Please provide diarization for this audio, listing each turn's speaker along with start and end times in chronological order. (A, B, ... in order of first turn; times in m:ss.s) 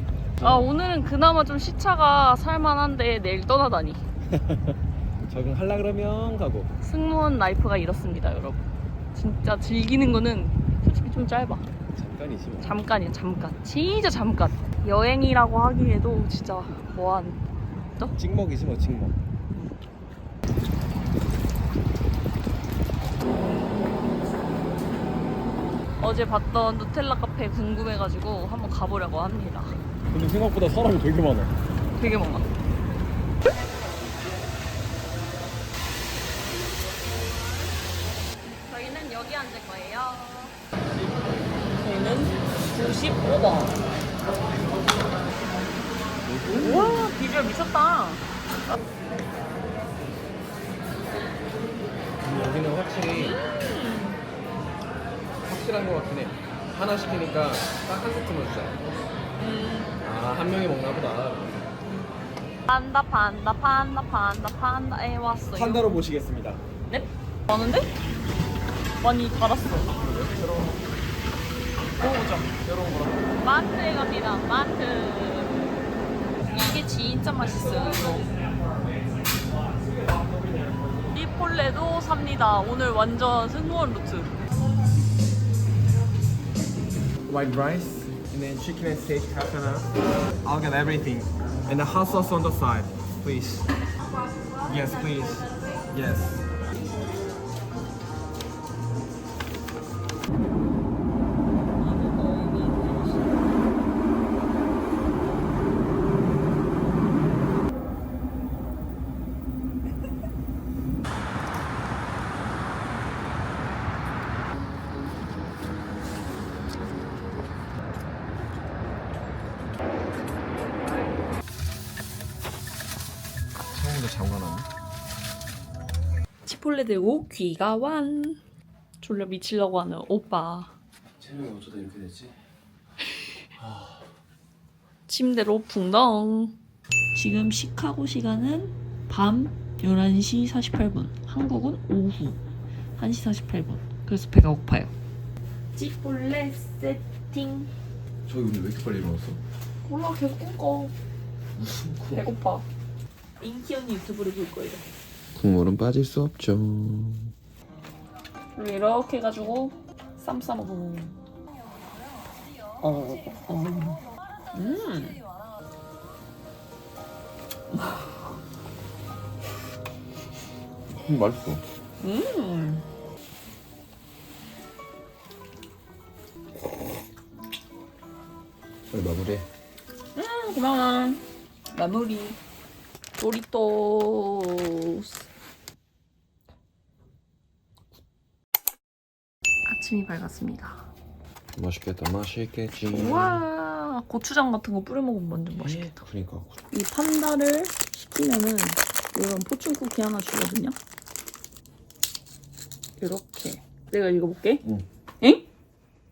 0:00.4-0:00.7 A
0:00.4-0:04.0 B
0:04.3-0:06.7 A
0:06.8-0:11.7 B
0:11.9-0:12.8 A
0:12.6-0:17.4 B
0:18.1-0:19.2 A
0:26.0-0:29.8 B
0:30.1-0:31.5 A
0:32.0-0:32.5 B
0:38.6-0:40.6 B
0:41.7-0:43.8 B
0:46.2-0:47.1 A
0:46.5-0:48.8 B
0:52.2-0:53.4 A
0:53.1-0:54.2 B
0:55.4-0:58.9 A
0:59.4-1:00.0 B
1:00.0-1:01.7 A
1:02.7-1:05.9 B
1:05.5-1:06.6 A
1:06.9-1:07.9 B
1:09.0-1:09.9 B
1:09.9-1:10.8 A
1:12.0-1:12.5 B
1:12.5-1:13.4 A
1:13.4-1:15.8 B
1:16.5-1:18.3 B
1:21.1-1:24.3 B
1:27.3-1:29.9 A
1:30.4-1:33.7 A
1:34.6-1:36.4 A
1:41.8-1:43.3 B
2:03.7-2:04.7 A
2:06.4-2:08.4 B
2:09.0-2:10.7 B
2:11.2-2:12.4 A
2:13.6-2:14.0 A
2:15.1-2:16.6 B
2:17.1-2:22.4 B
2:22.9-2:24.9 B
2:25.7-2:27.7 B
2:28.2-2:29.4 A
2:29.8-2:30.9 B
2:31.6-2:32.2 A
2:32.1-2:32.7 B
2:33.4-2:34.9 B
2:35.3-2:37.3 A
2:38.5-2:41.2 B
2:42.8-2:44.0 B
2:44.5-2:45.2 B
2:51.0-2:51.6 A
2:52.0-2:52.9 B
2:58.9-2:59.5 A
3:00.2-3:02.4 B
3:03.2-3:05.3 B
3:09.6-3:10.9 B
3:11.5-3:13.4 A
3:12.8-3:16.0 B
3:15.5-3:16.6 A
3:16.7-3:20.8 B
3:23.0-3:24.6 B